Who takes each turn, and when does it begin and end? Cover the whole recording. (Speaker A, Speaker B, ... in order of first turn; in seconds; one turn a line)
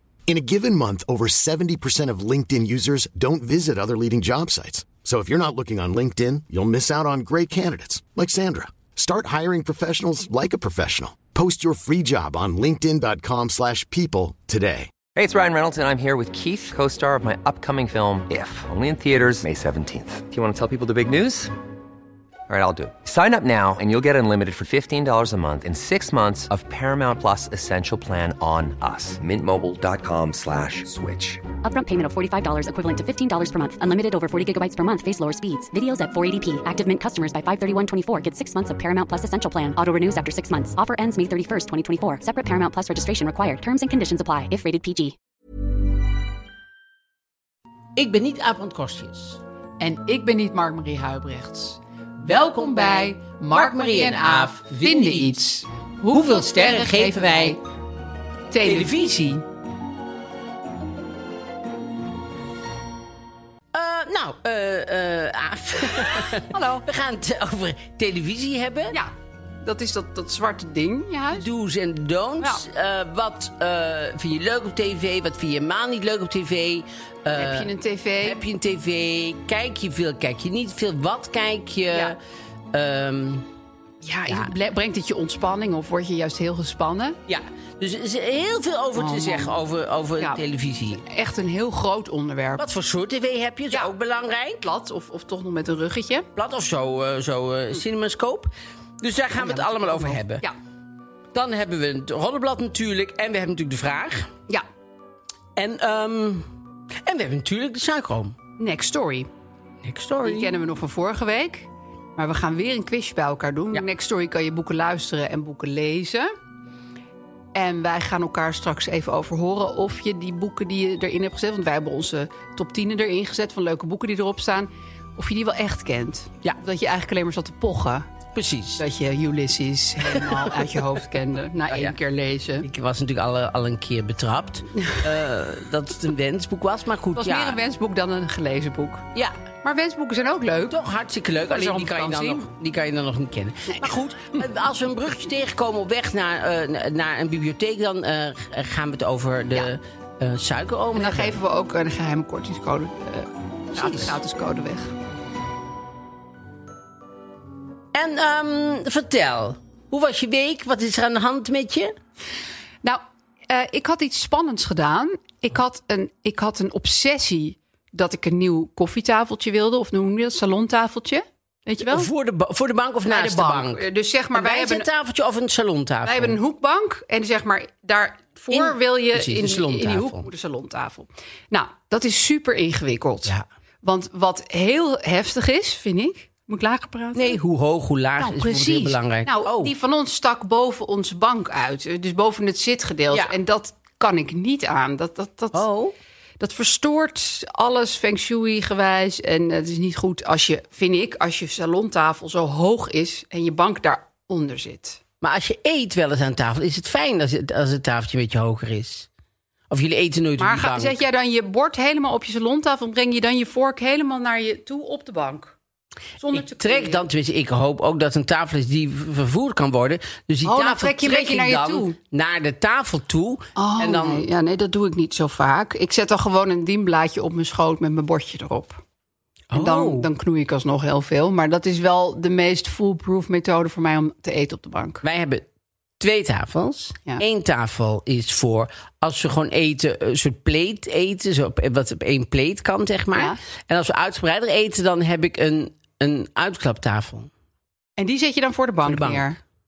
Speaker A: 0.3-14.9
Speaker B: 15.2-21.5
Speaker B: 22.5-31.4
Speaker C: 31.6-45.1
Speaker D: 48.0-49.4
Speaker E: 49.8-57.6
Speaker D: 52.3-55.4
Speaker D: 56.1-57.6
Speaker E: 58.5-59.4
Speaker D: 58.6-59.4
Speaker D: 63.7-69.0
Speaker E: 66.5-66.8
Speaker E: 68.9-71.5
Speaker D: 71.3-82.2
Speaker E: 77.4-78.4
Speaker D: 82.7-83.5
Speaker E: 84.0-87.2
Speaker D: 87.3-91.0
Speaker E: 89.0-89.6
Speaker E: 91.0-92.6
Speaker D: 92.6-94.7
Speaker E: 94.6-96.3
Speaker D: 96.4-100.5
Speaker E: 99.3-100.5
Speaker D: 101.3-104.3
Speaker D: 105.6-106.5
Speaker D: 107.0-108.4
Speaker E: 108.6-109.3
Speaker D: 109.8-110.5
Speaker E: 110.2-116.3
Speaker E: 117.5-128.1
Speaker D: 128.3-128.8
Speaker E: 128.8-132.7
Speaker D: 130.1-130.8
Speaker D: 132.6-137.6
Speaker E: 137.2-139.1
Speaker E: 139.6-140.8
Speaker D: 140.7-151.4
Speaker E: 141.5-142.5
Speaker E: 143.7-143.9
Speaker E: 150.9-154.9
Speaker D: 153.8-154.2
Speaker D: 157.9-161.9
Speaker E: 162.8-172.1
Speaker D: 171.8-176.4
Speaker E: 173.1-174.9
Speaker E: 176.1-187.4
Speaker D: 178.5-180.3
Speaker D: 187.2-189.7
Speaker E: 188.2-195.6
Speaker D: 195.5-195.9
Speaker E: 196.4-205.0
Speaker D: 205.2-209.1
Speaker D: 209.7-211.0
Speaker E: 210.4-215.5
Speaker E: 216.2-217.0
Speaker D: 216.3-224.2
Speaker E: 220.4-222.0
Speaker E: 223.6-228.8
Speaker D: 229.5-230.1
Speaker E: 229.5-235.0
Speaker D: 235.0-235.4
Speaker D: 236.0-247.3
Speaker E: 248.0-249.4
Speaker D: 248.8-249.3